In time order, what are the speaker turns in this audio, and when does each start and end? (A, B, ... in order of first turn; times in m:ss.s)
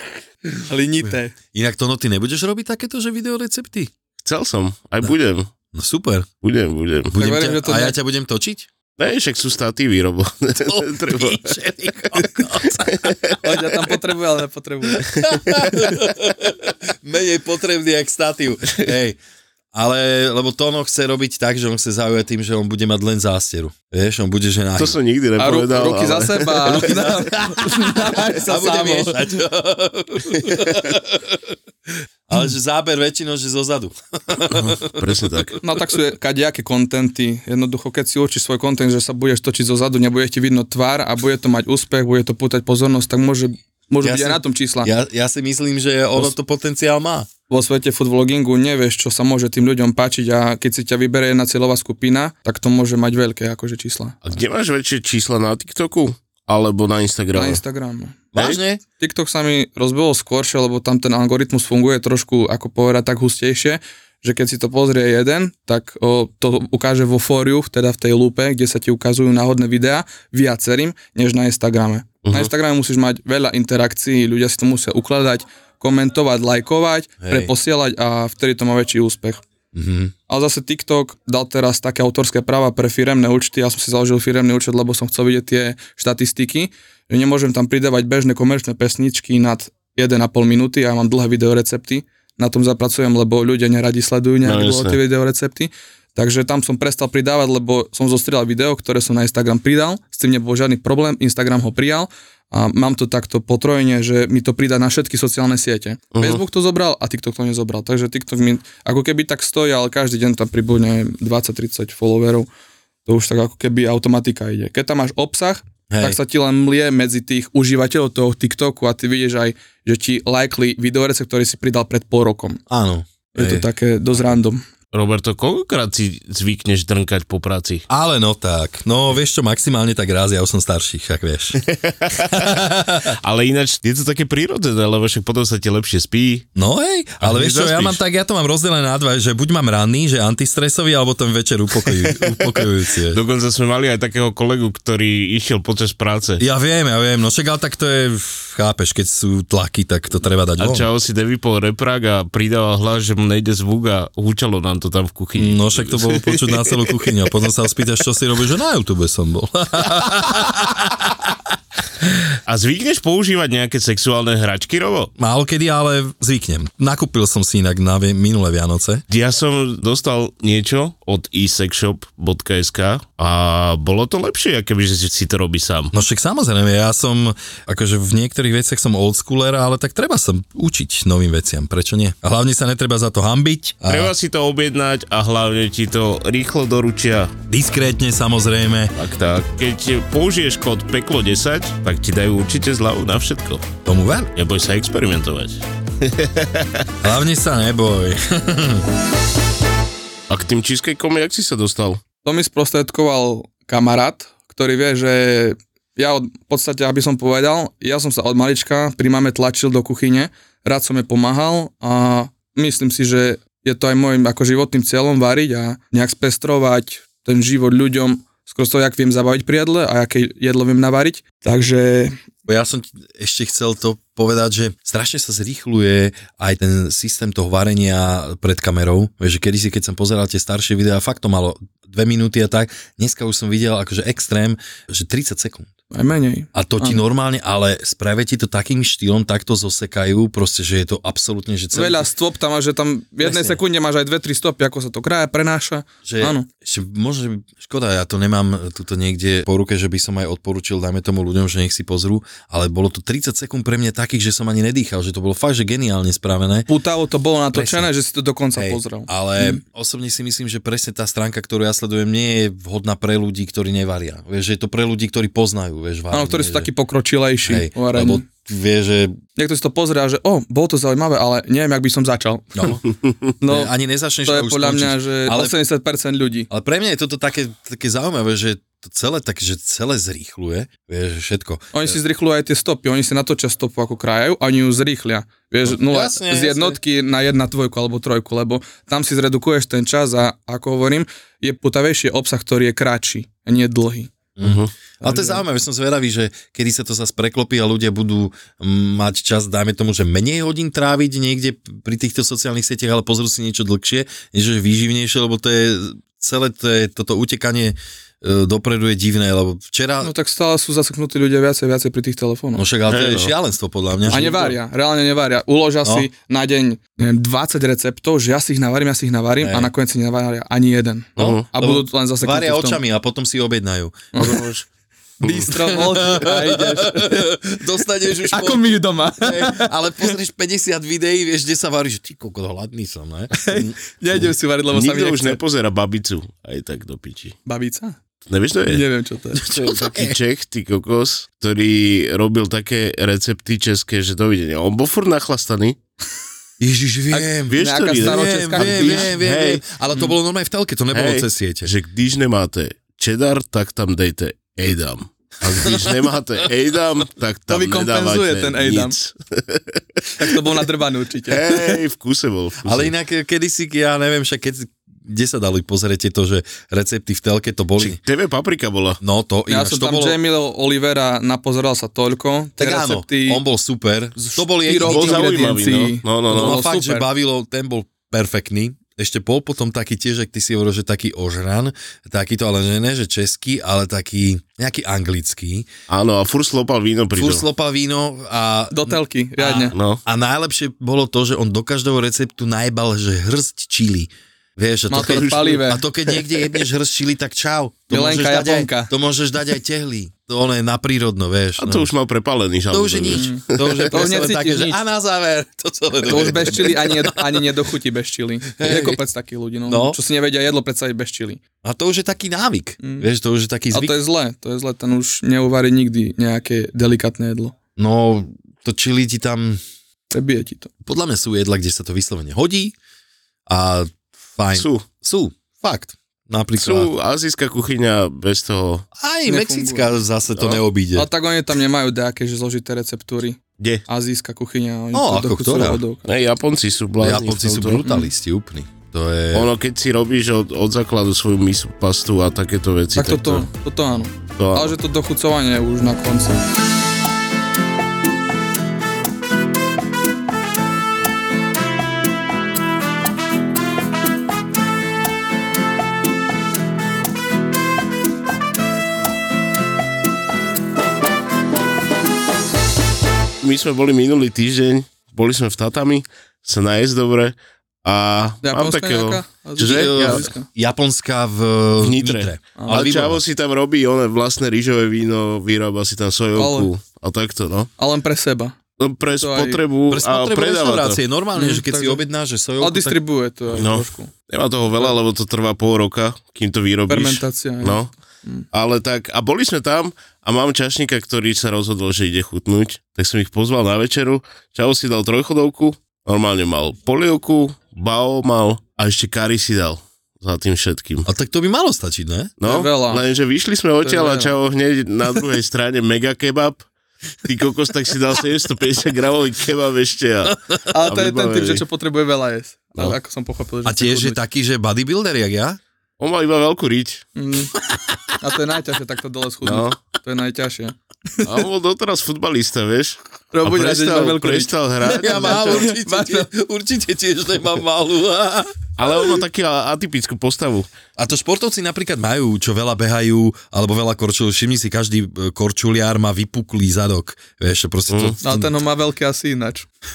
0:00.6-0:01.3 A
0:01.5-0:03.9 B
0:04.2-0:05.5 C
0:05.7-0:06.3 B
0:06.4-0:07.1 C
0:07.1-0:08.7 B
0:07.2-0:08.0 A
0:09.0-0:11.6 C
0:10.6-0:13.4 B
0:13.0-0:13.4 C
0:13.4-0:15.1 A
0:14.9-0:19.2 B
0:19.7-0:25.0 B
0:24.8-0:27.0 C
0:25.4-0:29.3 A
0:26.7-0:31.6 B
0:32.3-0:35.8 B
0:34.5-0:35.6 C
0:35.6-0:44.9 A
0:44.0-0:47.3 B
0:47.5-0:54.2 A
0:54.2-0:57.6 C
0:57.4-0:58.2 A
0:58.3-0:58.8 B
0:59.0-1:19.4 A
1:12.2-1:12.5 C
1:17.2-1:17.5 B
1:19.7-1:20.1 B
1:20.3-1:52.5 A
1:34.4-1:35.0 C
1:46.2-1:46.4 C
1:53.1-2:02.6 A
1:55.9-1:56.2 B
2:02.7-2:03.7 B
2:03.4-2:04.6 A
2:04.9-2:07.8 C
2:07.9-2:13.2 B
2:11.7-2:12.4 C
2:13.1-2:16.5 C
2:16.6-2:23.2 B
2:17.2-2:18.0 C
2:23.1-2:26.4 C
2:26.4-2:30.9 B
2:30.6-2:37.1 C
2:35.4-2:41.4 B
2:42.5-2:45.1 C
2:45.2-2:49.0 B
2:49.1-2:55.9 C
2:55.9-3:04.1 B
3:03.9-3:07.3 C
3:07.5-3:08.9 B
3:09.0-3:13.7 C
3:13.8-3:14.3 B
3:14.4-3:16.9 C
3:17.0-3:18.9 B
3:20.3-3:22.0 C
3:22.2-3:42.2 A
3:42.5-3:55.7 B
3:55.9-3:57.0 A
3:56.5-4:02.1 B
4:01.7-4:06.5 A
4:03.2-4:03.6 B
4:06.0-4:16.7 B
4:16.7-4:19.6 A
4:17.5-4:17.9 B
4:18.6-4:26.7 B
4:26.1-4:28.2 A
4:27.5-4:29.2 B
4:29.4-4:32.8 A
4:33.4-4:33.7 A
4:33.4-4:35.6 B
4:34.2-4:36.5 A
4:36.5-4:42.0 B
4:41.7-4:54.1 A
4:45.6-4:46.8 B
4:54.4-5:10.1 B
4:54.4-4:54.7 C
4:55.0-4:55.4 A
5:10.0-5:12.7 A
5:12.6-5:14.3 B
5:12.9-5:13.3 C
5:14.1-5:14.5 C
5:14.1-5:22.8 A
5:15.8-5:16.1 B
5:19.4-5:19.7 B
5:21.2-5:21.5 C
5:21.2-5:24.4 B
5:24.2-5:24.4 A
5:24.2-5:24.7 C
5:25.2-5:27.4 A
5:25.2-5:25.5 C
5:25.5-5:34.3 B
5:28.3-5:30.1 A
5:33.3-5:35.4 A
5:34.7-5:37.4 C
5:37.5-5:38.0 A
5:38.3-5:38.8 C
5:38.7-5:39.4 A
5:39.4-5:40.2 B
5:39.6-5:45.8 C
5:46.6-5:51.7 B
5:47.1-5:49.1 A
5:47.5-5:49.6 C
5:50.9-6:00.0 C
5:55.5-5:55.9 B
5:57.5-5:59.0 A
6:00.2-6:01.8 A
6:01.3-6:02.9 C
6:02.6-6:08.0 B
6:07.8-6:09.0 C
6:09.0-6:10.2 B
6:09.5-6:13.4 A
6:12.6-6:15.4 B
6:14.2-6:17.1 A
6:14.8-6:16.6 C
6:16.3-6:25.7 B
6:25.9-6:27.4 C
6:27.2-6:41.9 B
6:28.7-6:29.7 A
6:29.7-6:30.0 C
6:34.9-6:35.8 A
6:34.9-6:35.6 C
6:37.9-6:38.9 A
6:41.6-6:43.9 C
6:42.7-6:47.5 B
6:43.1-6:44.8 A
6:46.0-6:51.4 A
6:48.6-6:49.0 B
6:49.7-6:50.0 B
6:51.6-6:54.0 B
6:52.8-6:53.1 A
6:53.7-6:57.5 A
6:57.8-6:59.6 B
7:00.1-7:00.7 A
7:00.8-7:02.8 B
7:03.5-7:06.9 B
7:04.5-7:04.9 C
7:06.6-7:08.9 C
7:09.0-7:11.1 B
7:09.3-7:09.9 A
7:10.4-7:10.6 C
7:11.0-7:16.0 A
7:14.9-7:15.8 B
7:16.1-7:17.9 C
7:17.0-7:19.5 B
7:17.8-7:18.1 A
7:19.3-7:23.5 C
7:23.0-7:26.4 A
7:24.4-7:24.8 C
7:43.4-7:50.3 C
7:48.4-7:50.5 A
7:49.6-7:53.2 B
7:51.8-7:57.7 C
7:52.6-7:52.9 A
7:56.4-7:56.7 A
7:57.8-7:58.6 A
7:58.8-8:01.0 C
7:59.1-7:59.6 A
7:59.9-8:03.0 B
8:01.4-8:02.0 A
8:02.6-8:04.1 A
8:03.5-8:07.9 C
8:06.9-8:08.4 A
8:08.5-8:21.1 C
8:21.1-8:22.3 B
8:22.4-8:26.7 C
8:22.4-8:23.0 A
8:23.8-8:24.3 A
8:27.2-8:31.6 C
8:30.7-8:34.2 A
8:33.6-8:35.6 B
8:36.0-8:37.1 C
8:37.2-8:37.5 A
8:37.7-8:38.0 B
8:38.2-8:41.3 A
8:39.4-8:39.8 C
8:41.2-8:45.7 C
8:43.3-8:46.3 A
8:44.9-8:48.9 B
8:48.8-8:50.7 C
8:51.0-8:58.6 B
8:57.9-8:58.2 C
8:58.2-8:59.7 A